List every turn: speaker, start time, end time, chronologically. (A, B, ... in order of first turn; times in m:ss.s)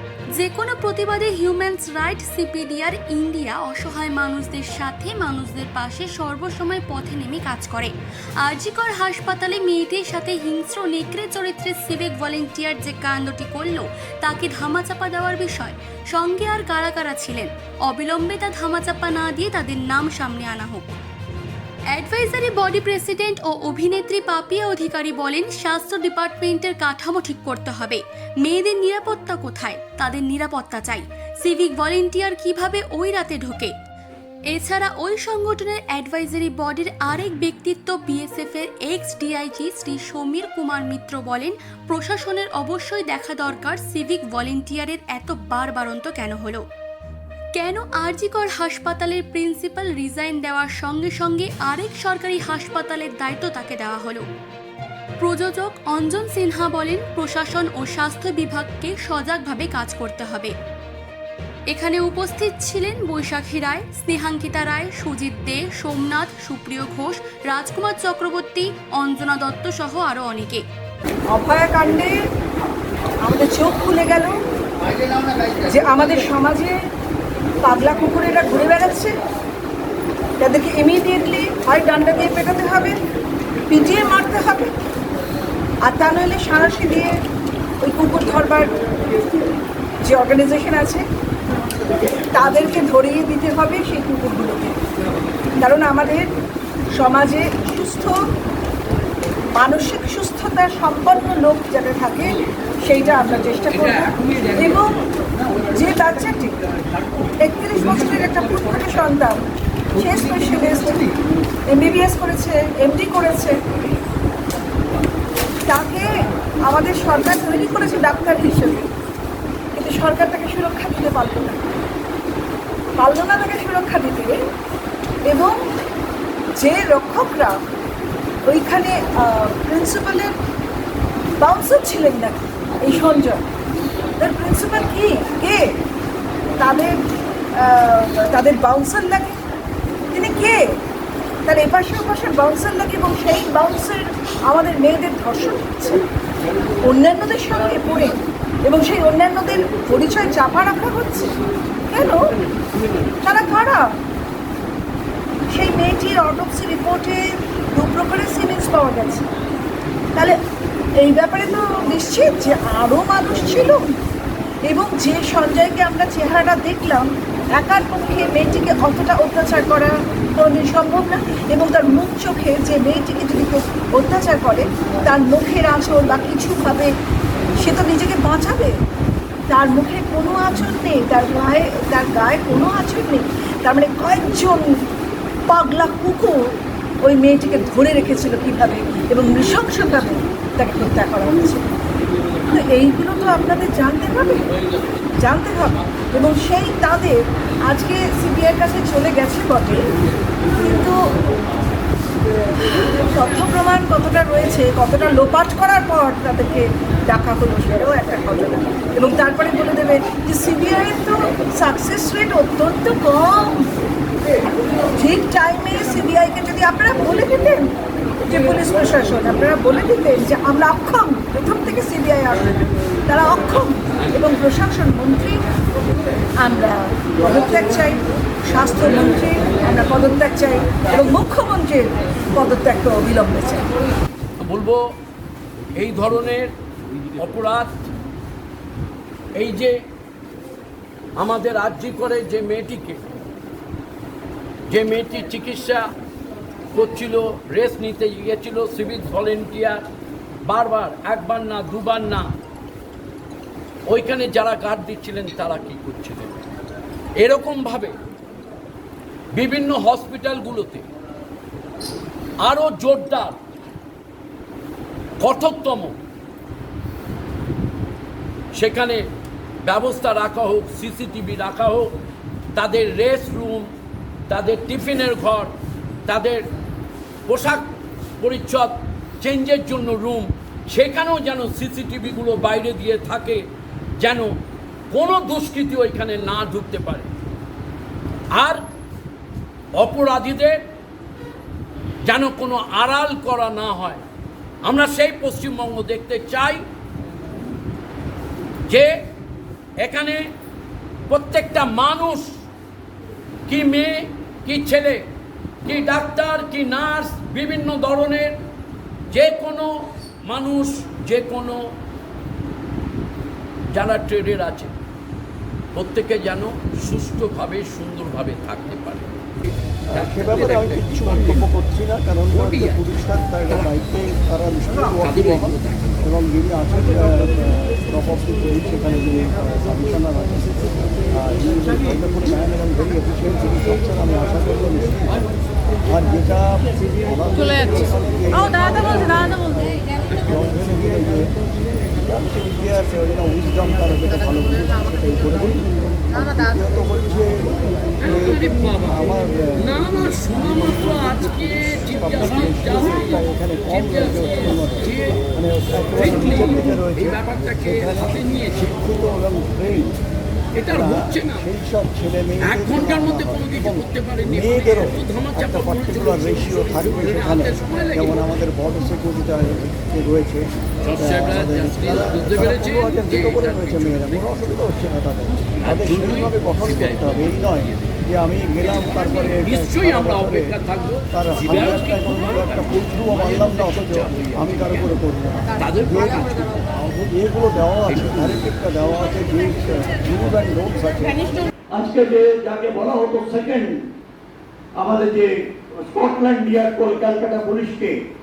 0:00.3-0:20.9 A
0:21.9-0:33.7 A
0:34.5-0:46.6 A
0:47.5-0:54.2 A
0:55.2-1:00.5 A
1:01.7-1:10.6 A
1:11.3-1:12.1 B
1:13.2-1:14.4 B
1:15.7-1:16.8 B
1:17.6-1:19.2 B
1:20.4-1:23.0 B
1:23.7-1:24.7 B
1:25.8-1:27.2 B
1:27.8-1:28.7 B
1:30.0-1:31.0 B
1:32.3-1:34.8 B
1:35.6-1:36.3 B
1:36.9-1:38.2 B
1:39.5-1:45.0 B
1:45.7-1:46.5 B
1:47.4-1:49.4 B
1:49.9-1:51.1 B
1:51.7-1:53.6 B
1:55.7-1:56.1 B
1:56.6-1:58.8 B
1:59.8-2:01.7 B
2:03.0-2:04.4 B
2:05.2-2:05.6 B
2:06.6-2:07.6 B
2:08.4-2:10.3 B
2:11.4-2:13.4 B
2:14.2-2:15.7 B
2:16.6-2:17.0 B
2:17.6-2:19.4 B
2:20.1-2:20.6 B
2:21.4-2:26.0 B
2:26.8-2:31.4 B
2:31.9-2:32.3 B
2:33.2-2:33.8 B
2:35.5-2:39.3 B
2:41.0-2:43.9 B
2:44.6-2:56.9 B
2:57.6-2:58.8 B
2:59.5-3:04.8 B
3:05.5-3:06.5 B
3:07.0-3:11.7 B
3:12.5-3:14.5 B
3:15.2-3:19.8 B
3:20.5-3:21.2 B
3:22.6-3:33.7 B
3:34.9-3:37.7 B
3:38.2-3:42.6 B
3:43.1-3:45.4 B
3:46.4-3:53.7 B
3:54.4-3:54.8 C
3:55.7-3:56.5 C
3:57.2-3:57.8 C
3:59.4-3:59.8 C
4:01.2-4:03.0 C
4:04.7-4:05.9 C
4:06.7-4:09.8 C
4:10.4-4:12.3 C
4:13.9-4:16.4 C
4:17.2-4:18.0 C
4:19.3-4:20.8 C
4:22.4-4:23.4 C
4:25.2-4:26.0 C
4:28.5-4:29.0 C
4:29.6-4:31.9 C
4:32.5-4:33.7 C
4:34.3-4:35.5 C
4:36.0-4:36.4 C
4:37.2-4:43.4 C
4:44.0-4:44.3 C
4:44.9-4:47.1 C
4:48.3-4:48.6 C
4:49.7-4:50.6 C
4:52.0-4:54.0 C
4:54.6-4:56.6 C
4:58.7-4:58.9 C
4:59.8-5:00.3 C
5:01.1-5:02.4 C
5:03.5-5:05.1 C
5:05.6-5:08.4 C
5:09.1-5:11.6 C
5:13.7-5:14.7 C
5:15.7-5:19.1 C
5:19.9-5:30.5 D
5:19.9-5:21.5 C
5:22.3-5:22.9 C
5:24.9-5:26.1 C
5:31.1-5:35.2 D
5:35.9-5:41.3 D
5:41.9-5:51.1 D
5:48.0-5:49.0 C
5:49.6-5:55.2 C
5:51.7-6:00.0 D
5:56.0-5:58.7 C
6:00.6-6:01.4 C
6:00.7-6:20.6 D
6:02.4-6:08.3 C
6:10.8-6:14.2 C
6:15.6-6:17.8 C
6:18.8-6:24.9 C
6:21.1-6:26.3 D
6:25.6-6:26.6 C
6:26.8-6:31.4 D
6:27.9-6:28.5 C
6:31.7-6:33.8 E
6:34.8-6:37.9 E